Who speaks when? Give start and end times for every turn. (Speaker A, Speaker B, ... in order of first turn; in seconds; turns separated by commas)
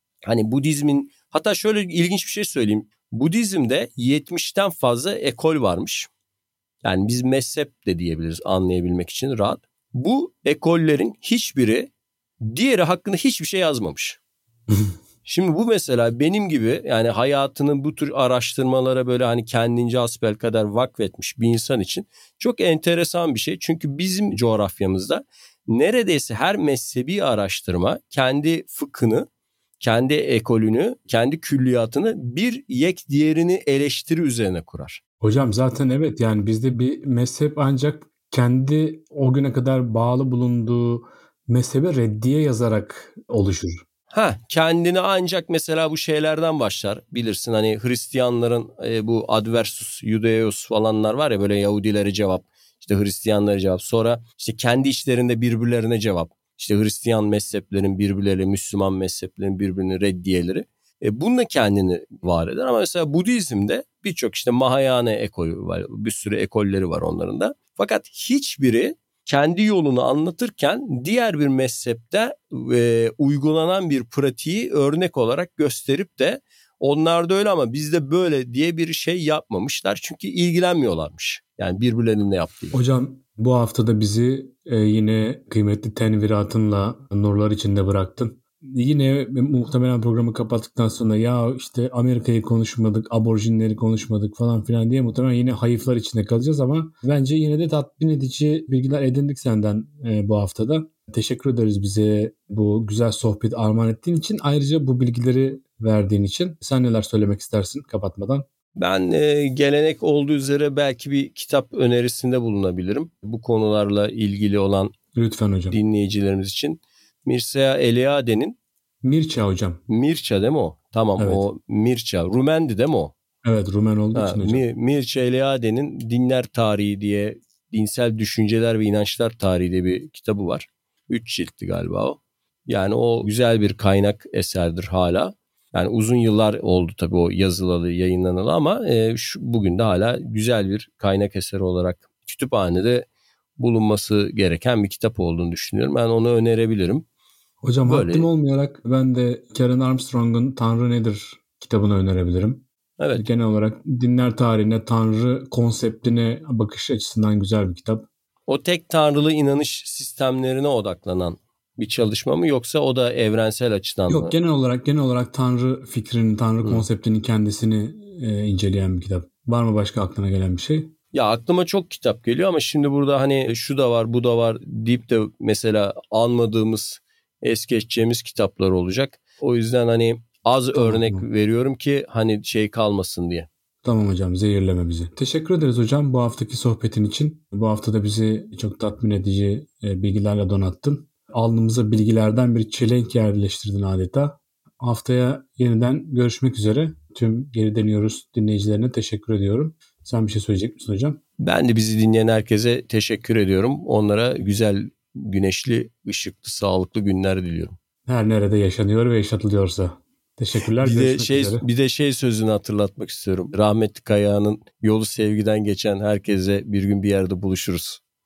Speaker A: 0.3-6.1, Speaker A: 6.8-11.9, Speaker A: 12.4-14.2, Speaker A: 15.2-29.3, Speaker A: 29.8-35.0, Speaker B: 35.2-43.8, Speaker A: 44.1-82.8, Speaker B: 82.7-108.5, Speaker A: 108.8-114.9, Speaker B: 115.1-115.8, Speaker A: 115.7-118.6, Speaker B: 119.0-119.8, Speaker A: 119.9-123.1, Speaker B: 121.2-121.5, Speaker B: 123.4-124.6, Speaker A: 124.1-143.1, Speaker A: 143.6-147.1, Speaker B: 147.6-152.7, Speaker A: 147.8-148.3, Speaker A: 153.0-153.2, Speaker B: 153.2-158.1, Speaker A: 158.5-164.3, Speaker B: 164.1-170.9, Speaker A: 171.1-183.5, Speaker B: 180.8-181.3, Speaker B: 183.8-201.2, Speaker A: 201.4-207.8, Speaker B: 208.1-211.6, Speaker A: 210.8-218.0